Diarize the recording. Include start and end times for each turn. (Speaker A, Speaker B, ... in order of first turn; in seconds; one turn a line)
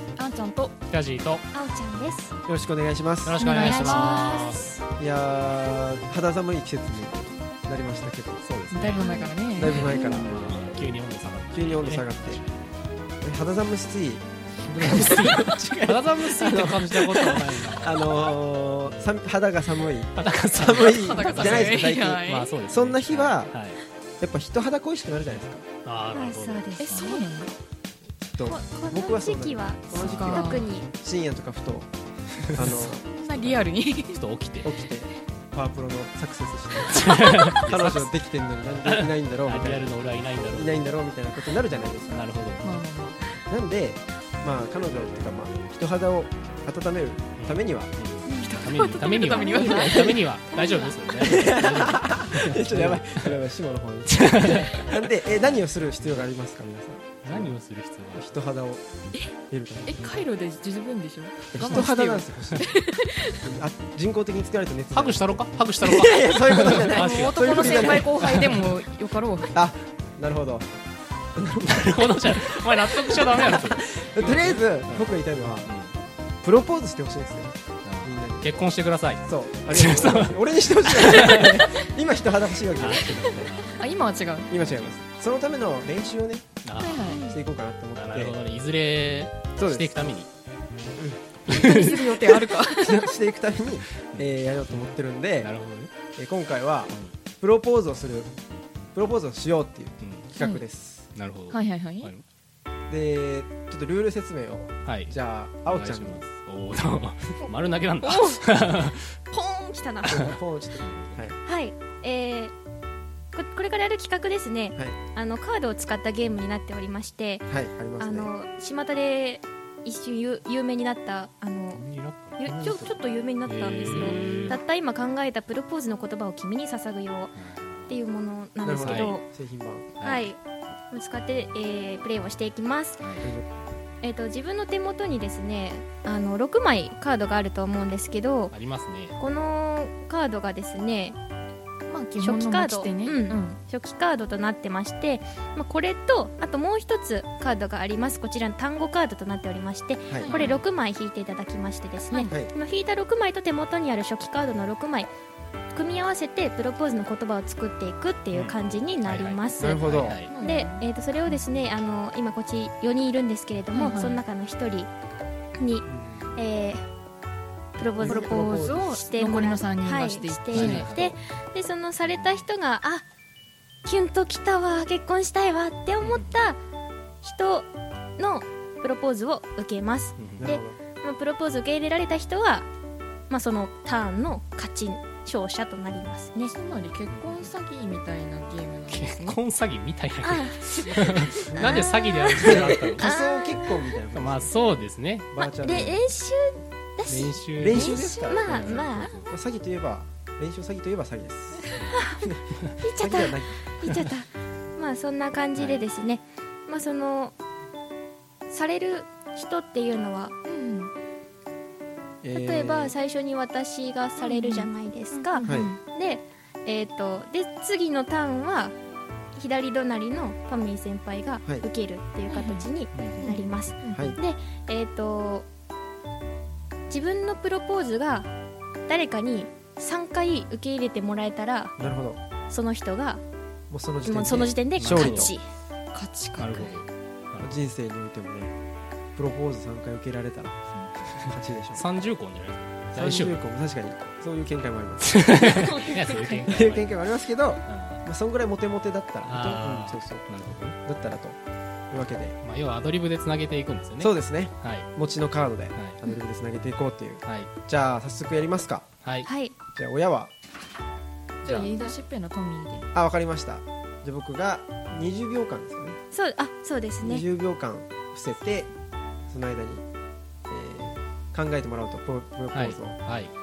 Speaker A: 0.2-0.8
Speaker B: 0.9-1.4
Speaker C: 1.5-2.3
Speaker D: 2.5-3.4
Speaker B: 3.2-4.8
Speaker A: 3.4-4.5
Speaker C: 3.6-4.8
Speaker D: 5.0-8.4
Speaker B: 8.4-9.1
Speaker A: 8.7-10.2
Speaker C: 9.0-9.3
Speaker D: 9.5-10.3
Speaker B: 9.7-12.7
Speaker C: 9.8-10.2
Speaker D: 11.5-12.4
Speaker D: 13.2-23.5
Speaker B: 14.6-18.3
Speaker B: 18.8-19.1
Speaker B: 20.1-23.8
Speaker A: 20.7-22.6
Speaker D: 24.2-25.6
Speaker B: 25.8-27.2
Speaker C: 26.1-27.2
Speaker A: 26.8-27.5
Speaker D: 28.2-31.9
Speaker C: 28.4-30.9
Speaker A: 30.0-30.7
Speaker D: 32.5-33.0
Speaker B: 32.6-32.8
Speaker A: 32.8-34.2
Speaker B: 33.3-34.7
Speaker D: 34.6-39.9
Speaker B: 36.9-38.1
Speaker B: 38.8-40.9
Speaker D: 40.5-42.2
Speaker B: 42.1-42.7
Speaker A: 42.6-43.4
Speaker D: 43.5-47.9
Speaker B: 47.4-53.4
Speaker A: 48.2-50.1
Speaker C: 49.4-49.8
Speaker D: 49.6-50.2
Speaker C: 50.5-50.9
Speaker D: 51.1-57.6
Speaker B: 54.2-55.0
Speaker B: 57.2-58.3
Speaker D: 58.1-58.8
Speaker D: 59.5-60.2
Speaker A: 59.8-63.5
Speaker D: 61.5-68.2
Speaker B: 61.6-61.9
Speaker B: 64.9-68.7
Speaker A: 66.7-69.5
Speaker D: 69.5-70.7
Speaker D: 71.3-72.3
Speaker B: 71.6-75.1
Speaker D: 73.1-75.7
Speaker B: 75.6-75.9
Speaker D: 76.4-78.5
Speaker B: 77.8-81.7
Speaker D: 79.3-83.4
Speaker B: 82.8-83.8
Speaker A: 83.2-84.5
Speaker D: 84.5-86.5
Speaker B: 84.5-85.0
Speaker B: 86.6-87.1
Speaker A: 86.8-87.3
Speaker D: 87.1-88.4
Speaker B: 87.9-90.3
Speaker D: 89.6-90.1
Speaker A: 91.5-93.1
Speaker B: 91.5-92.0
Speaker D: 92.2-95.5
Speaker B: 95.4-95.9
Speaker D: 96.2-98.3
Speaker D: 98.9-101.1
Speaker B: 100.0-100.3
Speaker A: 100.4-100.6
Speaker B: 101.1-102.2
Speaker A: 101.5-102.1
Speaker D: 102.9-106.2
Speaker B: 104.8-105.2
Speaker B: 105.7-109.2
Speaker C: 108.0-108.4
Speaker C: 109.3-110.3
Speaker D: 110.0-111.3
Speaker B: 110.8-111.3
Speaker C: 111.4-112.5
Speaker C: 113.3-121.8
Speaker D: 117.5-118.3
Speaker B: 121.7-122.5
Speaker C: 122.4-127.4
Speaker D: 122.4-122.9
Speaker B: 123.4-124.6
Speaker B: 127.3-128.0
Speaker C: 127.9-129.2
Speaker D: 128.6-129.9
Speaker B: 128.8-129.1
Speaker B: 130.0-130.3
Speaker C: 130.0-130.4
Speaker C: 130.9-133.0
Speaker B: 133.0-133.3
Speaker D: 133.2-133.4
Speaker C: 134.0-138.6
Speaker B: 138.5-139.2
Speaker C: 139.2-141.2
Speaker A: 141.9-143.6
Speaker C: 142.2-155.1
Speaker D: 150.1-150.4
Speaker A: 150.2-150.6
Speaker A: 152.1-152.3
Speaker C: 155.7-164.9
Speaker B: 158.3-160.3
Speaker D: 159.6-160.2
Speaker A: 160.3-161.7
Speaker A: 163.7-164.2
Speaker C: 165.6-166.8
Speaker C: 167.8-173.0
Speaker D: 168.0-168.8
Speaker A: 168.1-171.1
Speaker B: 170.5-171.1
Speaker B: 172.0-172.5
Speaker C: 173.8-176.6
Speaker B: 176.0-176.4
Speaker C: 177.2-182.7
Speaker B: 180.2-180.6
Speaker D: 180.4-180.8
Speaker C: 183.3-186.5
Speaker A: 186.4-189.4
Speaker B: 187.1-187.5
Speaker B: 188.9-193.1
Speaker C: 190.2-193.8
Speaker D: 191.5-194.5
Speaker B: 194.1-195.7
Speaker D: 195.3-196.0
Speaker C: 195.6-199.2
Speaker B: 197.1-199.3
Speaker D: 197.6-202.4
Speaker A: 197.7-198.3
Speaker C: 201.9-202.2
Speaker C: 202.8-207.3
Speaker D: 203.0-203.6
Speaker B: 205.5-205.8
Speaker C: 208.5-210.4
Speaker A: 210.5-210.9
Speaker D: 212.2-212.9
Speaker C: 212.4-218.8
Speaker A: 214.2-215.8
Speaker D: 215.4-215.7
Speaker C: 219.3-225.5
Speaker A: 222.3-222.7
Speaker B: 222.9-223.3
Speaker A: 223.2-224.2
Speaker C: 226.9-228.3
Speaker C: 228.9-231.7
Speaker D: 231.8-232.2
Speaker C: 232.5-233.2
Speaker D: 233.7-235.3
Speaker C: 234.0-235.4
Speaker B: 234.8-235.3
Speaker A: 235.9-236.8
Speaker B: 236.4-237.5
Speaker D: 237.4-238.5
Speaker D: 239.2-240.6
Speaker A: 240.7-241.1
Speaker D: 241.2-241.8
Speaker B: 241.7-243.4
Speaker D: 242.9-245.2
Speaker B: 245.1-247.0
Speaker A: 245.4-246.5
Speaker D: 246.4-250.3
Speaker B: 247.7-248.0
Speaker B: 249.2-250.8
Speaker D: 250.8-251.4
Speaker D: 251.9-252.3
Speaker B: 252.4-254.9
Speaker D: 254.0-258.9
Speaker B: 255.7-256.0
Speaker B: 259.0-259.3
Speaker C: 259.2-259.6
Speaker D: 259.7-260.3
Speaker A: 261.4-262.9
Speaker B: 261.4-261.7
Speaker C: 261.7-261.9
Speaker D: 262.9-266.0
Speaker C: 266.1-267.2
Speaker D: 267.0-268.7
Speaker D: 269.3-269.8
Speaker D: 270.5-273.0
Speaker B: 272.5-273.3